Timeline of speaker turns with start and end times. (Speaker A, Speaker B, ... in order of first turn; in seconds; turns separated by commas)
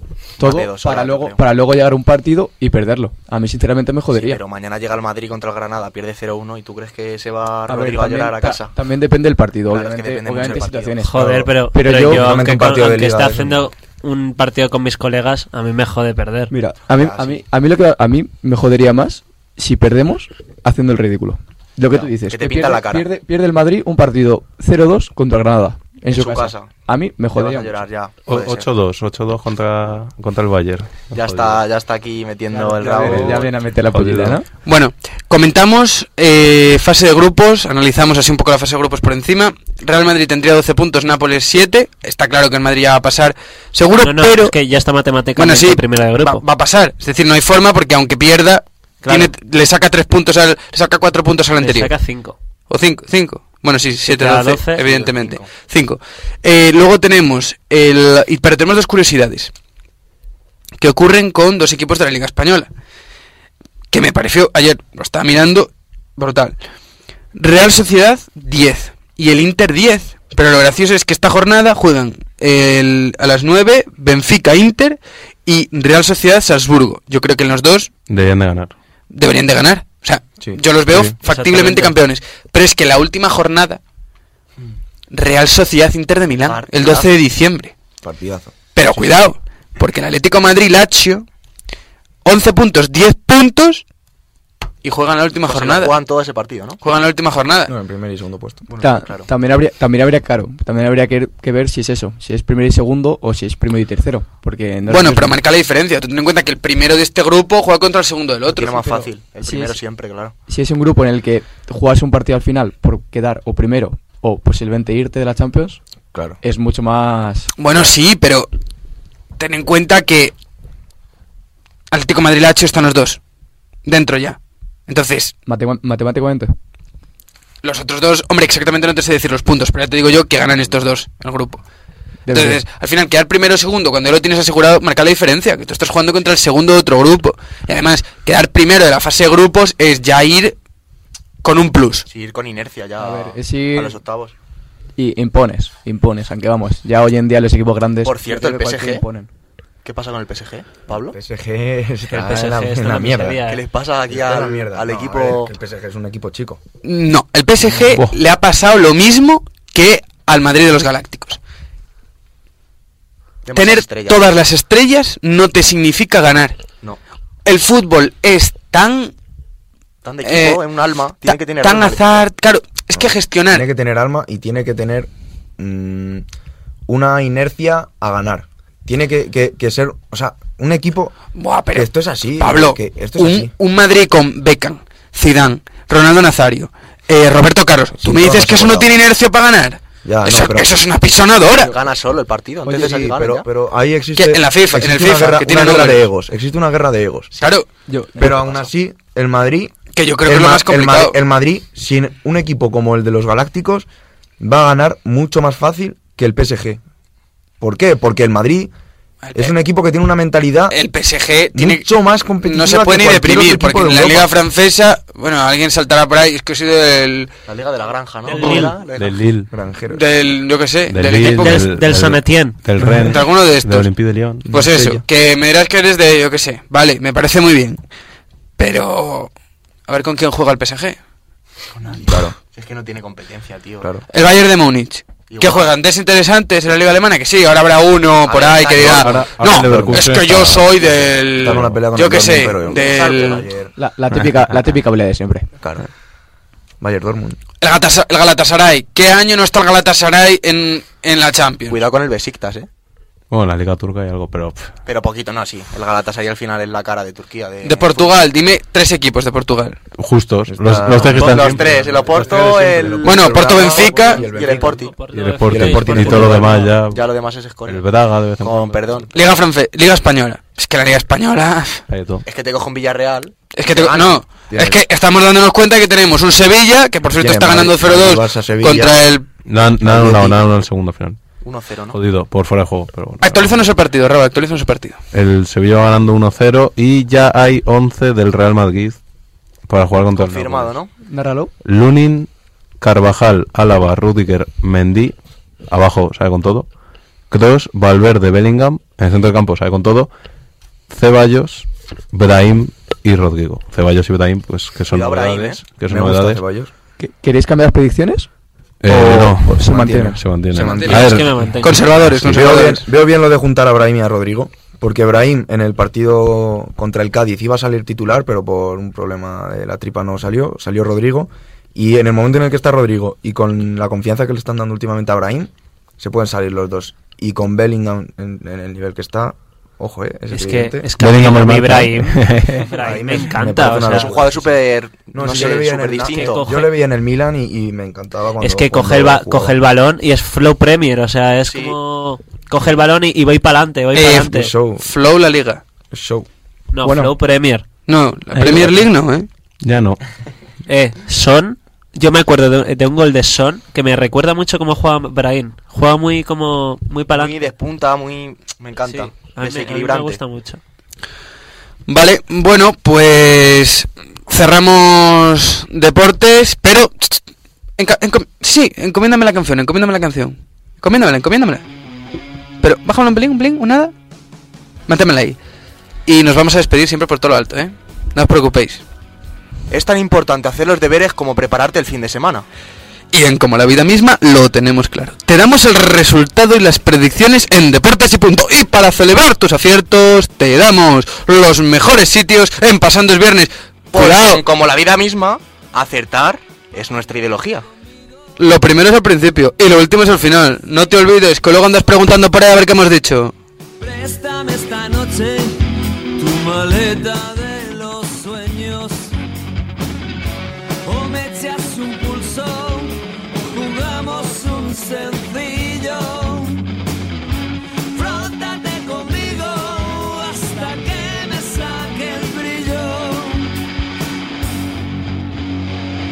Speaker A: 0.4-1.4, Speaker B: 0.4-4.4, Speaker A: 4.1-8.7, Speaker B: 7.7-11.2, Speaker A: 9.7-11.0, Speaker C: 11.0-16.5, Speaker D: 11.1-13.7, Speaker B: 11.7-12.3, Speaker B: 16.5-27.8, Speaker A: 16.9-17.4, Speaker A: 22.3-23.1, Speaker A: 26.1-26.7, Speaker A: 27.3-28.7, Speaker E: 28.3-31.6, Speaker A: 31.1-33.5, Speaker B: 32.5-34.4, Speaker E: 33.0-34.4, Speaker F: 34.6-44.5, Speaker C: 44.0-46.4, Speaker F: 45.4-51.9, Speaker C: 49.0-49.3, Speaker C: 51.6-52.4, Speaker F: 52.7-59.5, Speaker C: 54.1-54.8, Speaker A: 54.8-55.5, Speaker F: 60.8-62.7, Speaker F: 63.9-66.5, Speaker F: 67.3-77.9, Speaker E: 78.1-78.7, Speaker F: 79.1-83.8, Speaker E: 80.9-81.2, Speaker C: 81.2-82.0, Speaker F: 85.1-87.7, Speaker A: 86.4-87.1, Speaker D: 88.0-88.7, Speaker F: 88.7-91.2, Speaker F: 92.2-93.8, Speaker F: 94.8-96.0, Speaker A: 95.5-96.8, Speaker F: 96.8-97.7, Speaker D: 97.7-98.7, Speaker A: 98.7-99.3, Speaker B: 98.8-105.4, Speaker F: 104.9-109.0, Speaker A: 108.5-110.3, Speaker B: 108.7-109.8, Speaker B: 110.5-115.8, Speaker B: 116.4-117.5, Speaker F: 117.6-118.5, Speaker F: 119.4-120.3, Speaker F: 121.9-123.2, Speaker F: 123.8-125.3, Speaker B: 125.5-126.5, Speaker F: 127.6-131.6, Speaker B: 132.2-132.6, Speaker F: 132.3-140.5, Speaker F: 141.4-142.1, Speaker A: 142.1-144.3, Speaker B: 143.0-144.0, Speaker B: 145.0-149.3, Speaker A: 148.0-149.0, Speaker A: 149.8-151.2, Speaker D: 151.1-153.4, Speaker C: 152.1-153.6, Speaker A: 153.5-155.5, Speaker D: 154.1-156.6, Speaker F: 156.8-161.4, Speaker A: 163.4-164.3, Speaker F: 163.5-166.6, Speaker F: 167.4-169.1, Speaker A: 170.0-172.2, Speaker F: 170.2-170.6, Speaker F: 171.2-173.7, Speaker D: 172.9-176.2, Speaker D: 176.9-181.1, Speaker F: 181.3-191.7, Speaker D: 181.7-183.5, Speaker D: 188.0-189.0, Speaker D: 190.0-190.7, Speaker A: 191.5-193.4, Speaker B: 192.7-193.1, Speaker D: 192.7-197.3, Speaker F: 194.2-196.1, Speaker F: 197.3-197.7, Speaker B: 197.9-198.6, Speaker D: 198.2-199.7, Speaker F: 199.9-201.2, Speaker D: 200.2-203.9, Speaker D: 204.4-206.8, Speaker D: 207.6-208.7, Speaker F: 209.2-209.5, Speaker D: 209.3-210.8, Speaker F: 210.7-211.9, Speaker D: 211.5-214.3, Speaker F: 212.4-217.3, Speaker A: 217.5-219.2, Speaker C: 218.3-218.8, Speaker F: 218.4-218.7, Speaker E: 218.9-219.5, Speaker D: 219.5-220.0, Speaker F: 219.9-221.7, Speaker E: 220.9-224.5, Speaker C: 221.4-222.7, Speaker F: 223.0-223.9, Speaker D: 224.5-225.0, Speaker F: 224.5-227.8, Speaker F: 228.6-229.3, Speaker F: 229.9-231.0, Speaker A: 231.8-233.9, Speaker D: 232.1-232.3, Speaker F: 234.1-243.4, Speaker A: 235.3-235.7, Speaker A: 238.2-239.3, Speaker E: 238.8-240.9, Speaker D: 239.5-240.1, Speaker D: 241.4-243.7, Speaker E: 241.4-241.8, Speaker A: 242.7-243.4, Speaker B: 243.8-245.5, Speaker D: 245.6-245.9, Speaker D: 246.8-247.4, Speaker F: 247.6-251.8, Speaker A: 251.7-252.7, Speaker E: 253.3-254.7, Speaker A: 254.8-258.1, Speaker F: 257.6-259.8, Speaker E: 259.9-262.2, Speaker D: 260.5-264.9, Speaker A: 260.8-264.9, Speaker F: 263.0-264.2, Speaker C: 264.0-266.8, Speaker E: 265.1-269.0, Speaker D: 265.4-266.5, Speaker A: 266.1-269.1, Speaker F: 269.1-271.8, Speaker E: 271.9-272.2, Speaker A: 272.2-274.2, Speaker F: 273.5-279.2, Speaker D: 274.5-274.8, Speaker D: 277.1-279.0, Speaker E: 279.4-281.2, Speaker D: 279.8-280.4, Speaker A: 281.4-282.0, Speaker E: 281.9-283.6, Speaker F: 283.2-285.0, Speaker E: 285.1-289.0, Speaker E: 289.7-290.8, Speaker A: 290.1-290.9, Speaker B: 291.1-291.5, Speaker E: 291.6-295.1, Speaker E: 295.7-296.7, Speaker E: 297.3-300.1, Speaker E: 300.9-306.4, Speaker A: 304.9-305.6, Speaker D: 305.8-306.7, Speaker B: 307.0-308.3, Speaker E: 308.8-312.7, Speaker B: 308.9-310.2, Speaker D: 309.7-311.3, Speaker F: 310.5-312.8, Speaker C: 310.9-312.0, Speaker D: 312.2-330.9, Speaker C: 330.3-334.1, Speaker E: 331.0-332.7, Speaker A: 332.8-333.3, Speaker D: 332.8-339.6, Speaker A: 333.8-336.5, Speaker C: 336.0-336.7, Speaker C: 338.4-344.5, Speaker A: 341.4-341.8, Speaker F: 343.9-345.6, Speaker D: 344.3-344.8, Speaker D: 345.9-346.3, Speaker C: 346.7-347.6, Speaker B: 346.8-347.1, Speaker F: 347.9-349.3, Speaker B: 348.3-348.9, Speaker E: 349.6-350.0, Speaker C: 350.7-357.4, Speaker A: 357.1-360.2, Speaker C: 358.8-360.6, Speaker F: 361.9-367.2, Speaker F: 367.8-371.6, Speaker F: 372.6-373.9, Speaker F: 374.9-375.4, Speaker F: 376.1-378.8, Speaker A: 379.7-382.4, Speaker F: 383.1-394.4, Speaker A: 393.9-397.6, Speaker F: 398.4-403.3, Speaker G: 403.8-409.1, Speaker G: 410.8-416.8, Speaker G: 417.9-423.5